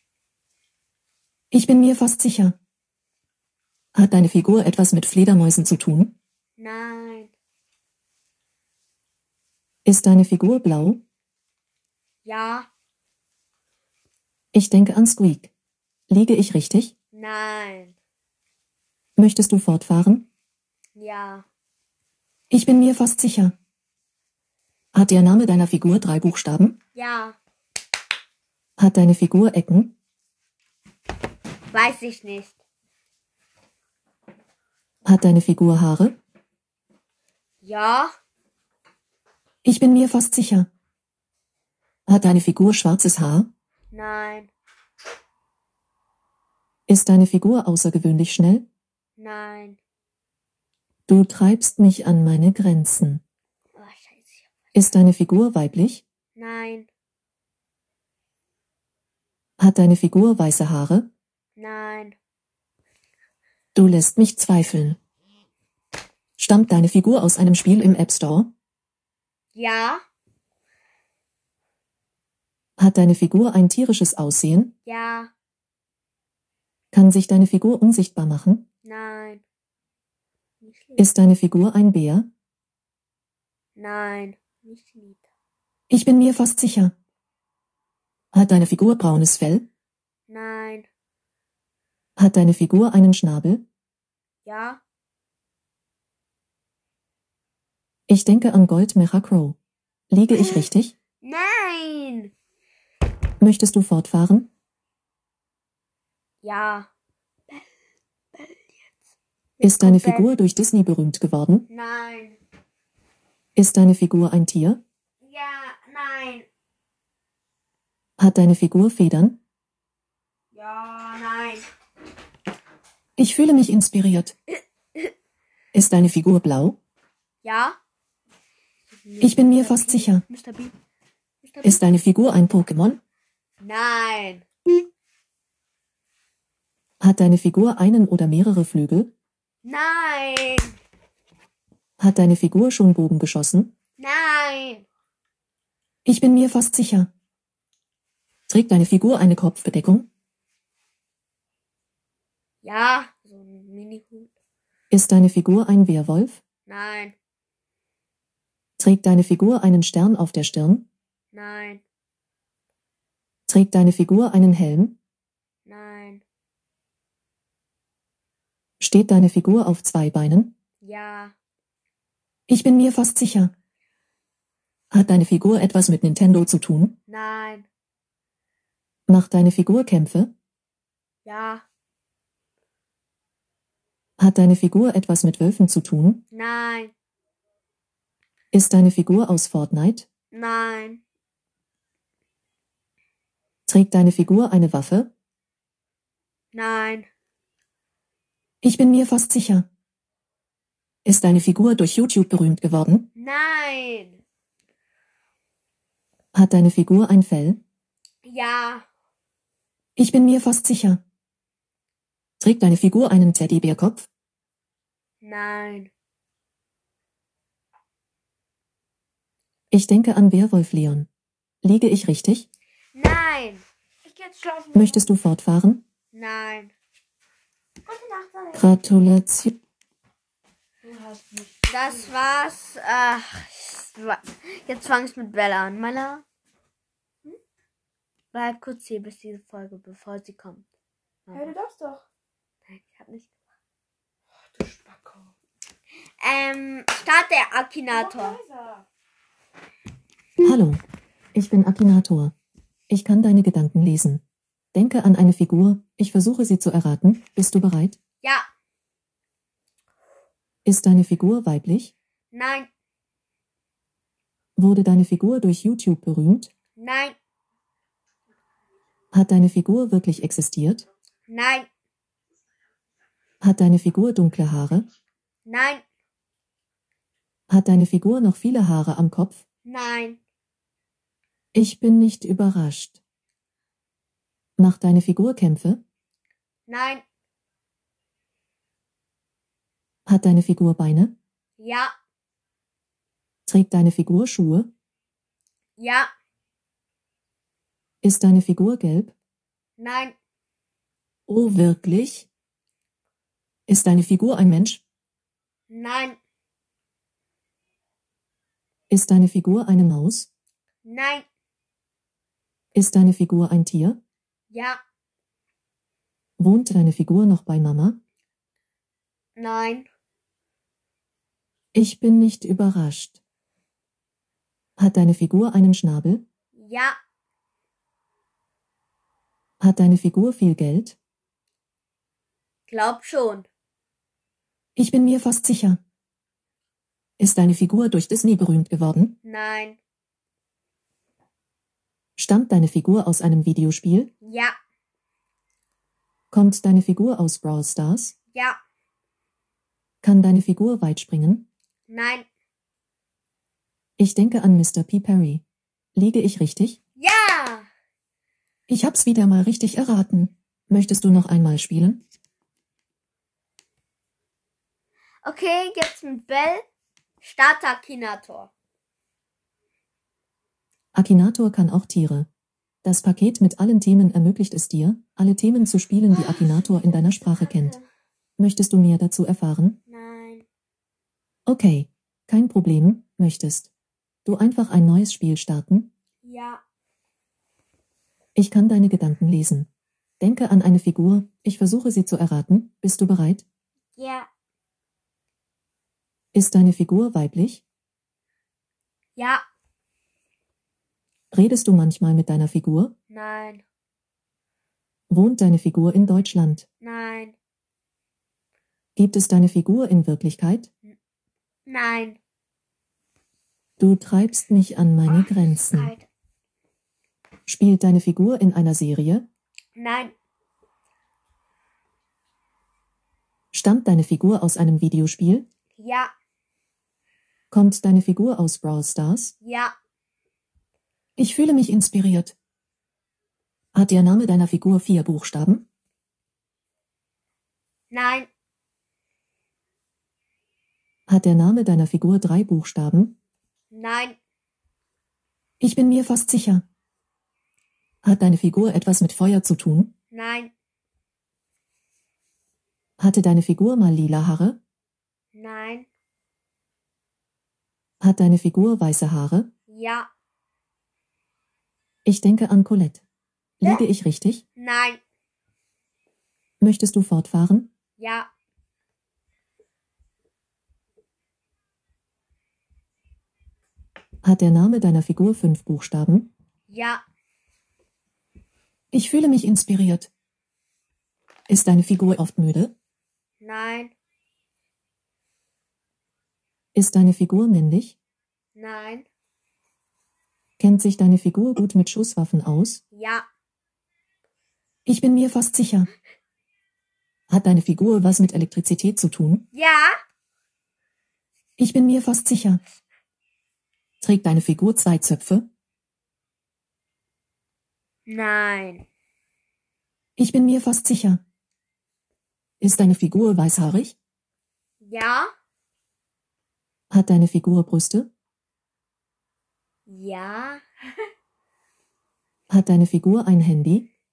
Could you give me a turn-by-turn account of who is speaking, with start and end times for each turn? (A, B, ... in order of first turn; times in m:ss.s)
0:01.5-0:02.6 A
0:03.9-0:06.2 A
0:06.6-0:07.3 B
0:09.8-0:11.0 A
0:12.2-0:12.7 B
0:14.5-0:15.5 A
0:16.1-0:16.9 A
0:17.1-0:18.0 B
0:19.2-0:20.3 A
0:21.0-0:21.5 B
0:22.5-0:23.6 A
0:24.9-0:26.8 A
0:27.0-0:27.4 B
0:28.8-0:30.0 A
0:31.7-0:32.6 B
0:35.0-0:36.2 A
0:37.6-0:38.1 B
0:39.6-0:40.7 A
0:42.1-0:43.5 A
0:43.9-0:44.5 B
0:46.9-0:48.7 A
0:49.2-0:49.8 B
0:51.1-0:53.2 A
0:53.8-0:54.6 B
0:54.7-0:56.0 A
0:56.4-0:56.9 B
0:59.6-1:01.1 A
1:01.6-1:02.2 B
1:03.8-1:05.0 A
1:06.4-1:08.5 A
1:09.6-1:10.0 B
1:12.8-1:14.7 A
1:14.9-1:15.3 B
1:16.9-1:18.6 A
1:18.8-1:19.4 B
1:20.6-1:21.1 B
1:21.0-1:22.3 A
1:23.8-1:25.3 B
1:25.9-1:26.9 A
1:28.3-1:29.7 A
1:30.3-1:30.9 B
1:32.2-1:33.6 A
1:34.4-1:34.8 B
1:38.1-1:39.6 A
1:40.1-1:41.0 A
1:40.3-1:40.7 B
1:41.2-1:42.3 B
1:43.4-1:44.5 A
1:46.4-1:46.9 B
1:48.4-1:48.9 B
1:49.6-1:50.3 B
1:49.6-1:51.7 A
1:51.7-1:52.4 B
1:53.6-1:54.8 A
1:55.2-1:56.5 B
1:58.2-1:59.4 A
2:00.5-2:01.7 B
2:03.2-2:04.4 A
2:05.7-2:06.8 A
2:07.4-2:07.8 B
2:08.9-2:10.8 B
2:09.2-2:10.2 A
2:11.4-2:11.8 B
2:11.6-2:13.0 A
2:13.6-2:14.5 B
2:17.0-2:19.1 A
2:19.6-2:20.8 B
2:22.0-2:23.7 A
2:24.0-2:24.9 B
2:26.0-2:27.1 A
2:28.5-2:30.1 A
2:32.6-2:34.3 B
2:34.9-2:36.4 A
2:36.7-2:37.2 B
2:38.8-2:40.9 A
2:41.3-2:41.8 B
2:43.5-2:45.0 A
2:45.7-2:46.2 B
2:48.8-2:50.5 A
2:50.8-2:51.4 B
2:52.5-2:53.5 A
2:54.9-2:57.0 A
2:57.1-2:57.7 B
2:59.1-3:00.3 A
3:01.2-3:01.6 B
3:04.2-3:06.2 A
3:06.3-3:06.9 B
3:08.5-3:10.1 A
3:10.3-3:11.0 B
3:13.7-3:15.1 A
3:16.5-3:17.1 B
3:18.6-3:19.7 A
3:21.0-3:23.1 A
3:23.2-3:24.2 B
3:26.3-3:27.6 A
3:28.2-3:28.8 B
3:30.0-3:31.0 A
3:32.4-3:34.1 A
3:35.2-3:35.9 B
3:39.7-3:41.1 A
3:41.6-3:42.5 A
3:42.9-3:43.6 B
3:44.0-3:45.0 C
3:44.7-3:45.8 A
3:46.1-3:46.7 B
3:47.9-3:48.7 C
3:48.5-3:49.6 A
3:50.8-3:51.6 C
3:51.7-3:56.2 B
3:58.3-4:00.7 B
4:01.3-4:01.5 B
4:01.3-4:02.0 C
4:02.7-4:03.3 B
4:04.5-4:05.3 C
4:06.2-4:08.4 B
4:07.9-4:08.9 C
4:10.4-4:10.8 A
4:11.3-4:12.3 A
4:12.9-4:14.2 A
4:14.7-4:18.0 A
4:20.6-4:21.9 A
4:22.3-4:22.7 B
4:24.6-4:26.5 A
4:26.8-4:27.2 B
4:29.1-4:30.9 A
4:31.3-4:31.7 B
4:33.4-4:34.9 A
4:35.5-4:35.8 B
4:37.5-4:39.4 A
4:39.6-4:40.2 B
4:41.5-4:43.0 A
4:44.6-4:45.8 A
4:46.7-4:47.0 B
4:50.1-4:51.1 A
4:51.6-4:51.9 B
4:53.5-4:54.7 A
4:55.8-4:56.1 B
4:58.0-4:59.1 A
4:59.8-5:00.2 B
5:01.3-5:02.3 A
5:03.7-5:04.8 A
5:05.7-5:06.2 B
5:08.9-5:10.3 A
5:10.8-5:11.3 B
5:12.7-5:14.0 A
5:14.5-5:14.8 B
5:16.4-5:18.0 A
5:19.4-5:19.9 B
5:21.7-5:23.2 A
5:24.8-5:26.2 A
5:26.6-5:27.0 B
5:29.6-5:31.0 A
5:32.7-5:33.5 B
5:34.8-5:35.8 A
5:37.2-5:39.2 A
5:39.2-5:39.8 B
5:42.2-5:44.1 A
5:44.2-5:44.6 B
5:46.3-5:48.2 A
5:48.3-5:48.6 B
5:50.0-5:51.5 A
5:51.9-5:52.3 B
5:54.0-5:55.4 A
5:56.0-5:56.8 A
5:57.0-5:57.7 B
5:58.7-6:02.0 A
6:05.2-6:06.6 B
6:07.2-6:08.5 B
6:10.9-6:12.3 A
6:12.8-6:17.8 A
6:16.1-6:17.9 B
6:18.4-6:19.8 A
6:19.9-6:20.5 B
6:21.5-6:23.7 A
6:24.3-6:25.9 A
6:26.2-6:26.6 B
6:28.4-6:29.7 A
6:30.2-6:33.4 A
6:34.0-6:34.3 B
6:36.3-6:37.6 A
6:39.2-6:39.4 B
6:41.3-6:42.9 A
6:43.1-6:43.6 B
6:45.1-6:46.7 A
6:46.8-6:47.4 B
6:49.0-6:50.7 A
6:51.7-6:52.2 B
6:53.8-6:55.9 A
6:55.1-6:56.1 B
6:57.5-6:59.3 A
6:59.8-7:00.1 B
7:03.5-7:05.5 A
7:05.8-7:06.1 B
7:07.5-7:09.3 A
7:09.4-7:09.7 B
7:11.2-7:12.4 A
7:13.7-7:15.7 A
7:17.9-7:18.3 B
7:21.1-7:23.2 A
7:23.7-7:24.2 B
7:25.6-7:26.6 A
7:28.0-7:29.9 A
7:30.1-7:30.5 B
7:33.0-7:34.6 A
7:35.3-7:35.9 B
7:38.0-7:39.5 A
7:39.7-7:40.1 B
7:42.0-7:43.0 A
7:43.6-7:44.4 A
7:44.6-7:45.0 B
7:46.6-7:47.7 A
7:48.0-7:48.3 B
7:54.2-7:56.3 A
7:56.7-7:57.0 B
7:58.9-8:00.1 A
8:01.5-8:02.7 A
8:03.4-8:03.9 B
8:06.8-8:08.0 A
8:08.6-8:09.1 B
8:10.6-8:12.8 A
8:12.9-8:13.3 B
8:14.9-8:15.9 A
8:17.3-8:19.5 A
8:19.5-8:20.0 B
8:21.6-8:22.6 A
8:24.0-8:25.5 A
8:28.1-8:28.8 B
8:30.2-8:31.2 A
8:32.6-8:34.0 A
8:34.8-8:35.3 B
8:36.9-8:38.1 A
8:39.9-8:40.6 B
8:42.5-8:43.9 A